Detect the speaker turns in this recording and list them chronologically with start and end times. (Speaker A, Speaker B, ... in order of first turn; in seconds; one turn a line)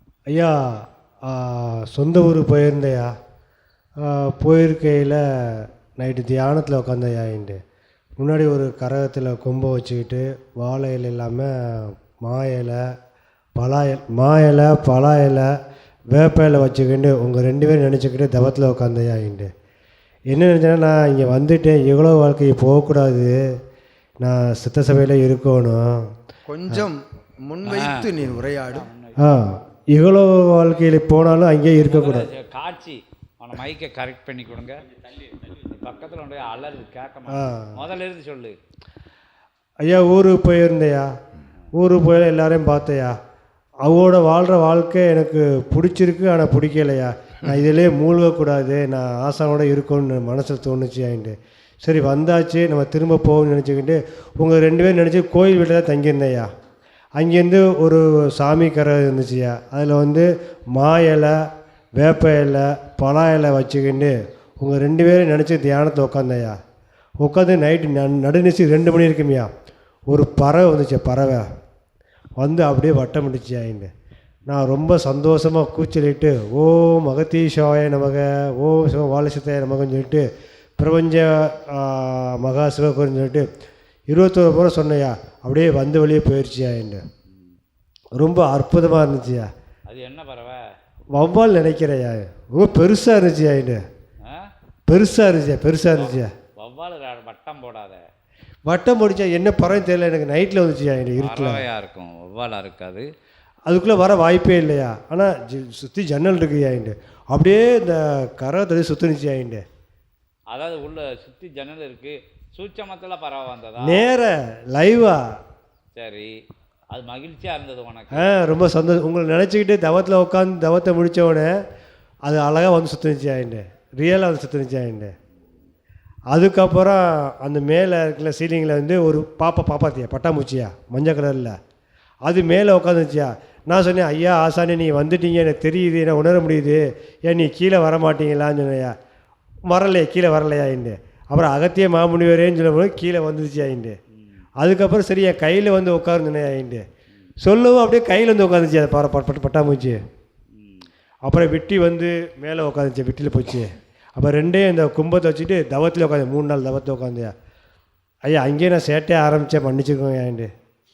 Speaker A: 0.3-3.1
Speaker A: 4.0-7.6
Speaker A: 8.2-12.9
Speaker A: 13.6-15.5
Speaker A: 16.1-19.5
Speaker A: 20.3-23.5
Speaker A: 24.2-26.2
Speaker B: 26.5-28.9
Speaker C: 27.7-28.1
Speaker C: 28.7-29.2
Speaker A: 29.2-32.3
Speaker C: 31.8-34.8
Speaker C: 35.5-38.6
Speaker A: 37.3-37.8
Speaker A: 39.9-41.1
Speaker A: 41.8-43.2
Speaker A: 43.8-56.5
Speaker A: 57.2-61.4
Speaker A: 62.0-66.6
Speaker A: 67.2-69.5
Speaker A: 70.1-71.5
Speaker A: 72.4-73.9
Speaker A: 74.5-80.3
Speaker A: 80.8-83.5
Speaker A: 84.1-87.0
Speaker A: 88.2-89.5
Speaker C: 89.9-90.7
Speaker A: 91.2-93.8
Speaker C: 94.2-94.5
Speaker A: 94.9-96.3
Speaker C: 96.0-98.0
Speaker A: 98.7-101.6
Speaker C: 101.2-103.1
Speaker A: 103.7-109.6
Speaker C: 110.5-114.1
Speaker A: 113.8-115.2
Speaker C: 116.0-116.3
Speaker C: 116.9-118.3
Speaker A: 118.1-121.5
Speaker A: 122.3-125.1
Speaker A: 126.3-131.6
Speaker A: 132.3-138.9
Speaker A: 139.7-144.0
Speaker A: 144.6-146.8
Speaker A: 147.4-150.0
Speaker C: 150.6-150.9
Speaker A: 151.3-157.3
Speaker A: 158.3-160.5